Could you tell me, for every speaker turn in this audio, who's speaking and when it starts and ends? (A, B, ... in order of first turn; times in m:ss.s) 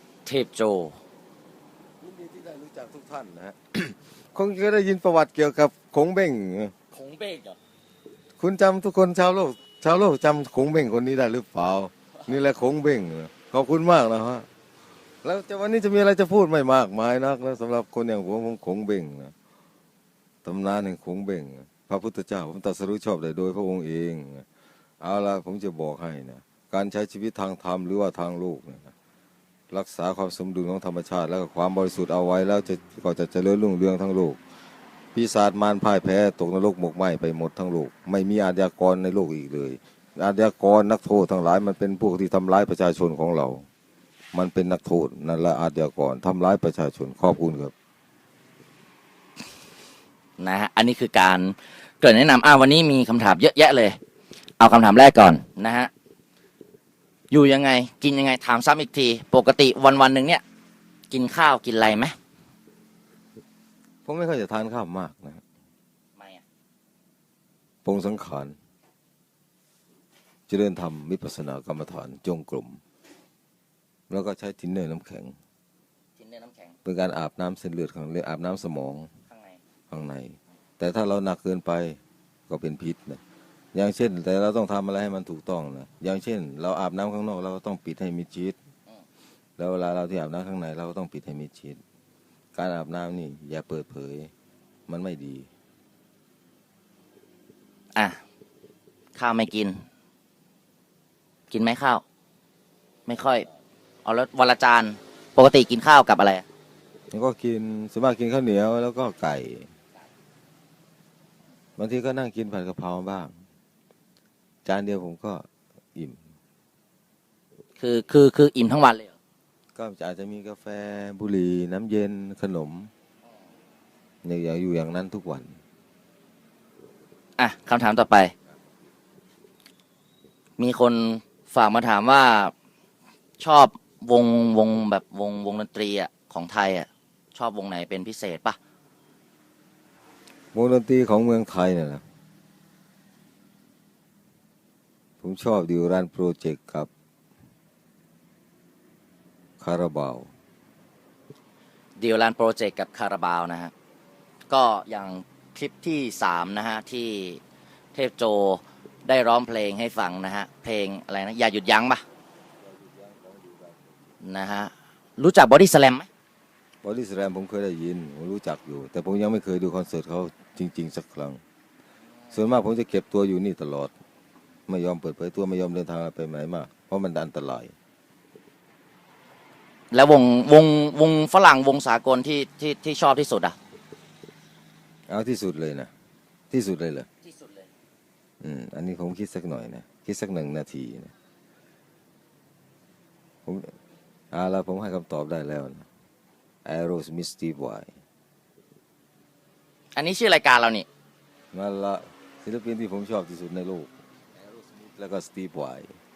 0:00.2-0:01.0 A
0:02.0-0:06.7 B
0:06.9-0:07.6 A
0:08.4-0:14.5 B
0:15.2-0:19.3 B
0:20.4-0:24.5 B
0:25.0-0:28.9 B
0:29.7-0:34.4 B
0:35.1-0:43.6 B
0:44.3-0:47.7 B
0:50.4-0:54.0 A
0:54.6-0:55.9 A
0:57.3-1:00.4 A
1:01.1-1:02.2 A
1:04.0-1:05.4 B
1:06.2-1:06.4 A
1:07.8-1:08.6 B
1:10.5-1:12.8 B
1:14.1-1:15.4 B
1:16.2-1:16.8 A
1:16.8-1:19.1 B
1:19.3-1:19.6 A
1:19.9-1:23.2 B
1:23.7-1:28.6 B
1:29.6-1:31.8 B
1:32.6-1:34.3 B
1:34.9-1:35.5 B
1:38.0-1:38.2 A
1:39.2-1:39.8 A
1:41.5-1:42.0 A
1:43.1-1:43.5 A
1:44.0-1:46.4 A
1:47.1-1:49.7 B
1:51.8-1:53.4 B
1:54.6-1:56.2 B
1:57.8-1:59.2 A
1:59.8-2:02.9 B
2:04.2-2:05.6 B
2:07.4-2:08.3 A
2:10.6-2:12.5 A
2:13.4-2:18.6 A
2:20.5-2:22.0 B
2:25.2-2:26.9 B
2:29.6-2:30.3 B
2:32.0-2:33.7 A
2:34.5-2:37.4 A
2:37.9-2:42.0 A
2:42.6-2:44.0 B
2:44.2-2:46.1 A
2:46.8-2:51.4 B
2:52.3-2:53.9 B
2:54.7-2:57.7 B
2:59.9-3:03.6 A
3:05.1-3:05.9 B
3:06.5-3:07.1 B
3:07.2-3:07.7 A
3:08.4-3:11.1 B
3:13.4-3:13.8 B
3:14.3-3:15.9 B
3:16.6-3:17.9 B
3:20.0-3:20.9 A
3:21.5-3:26.0 B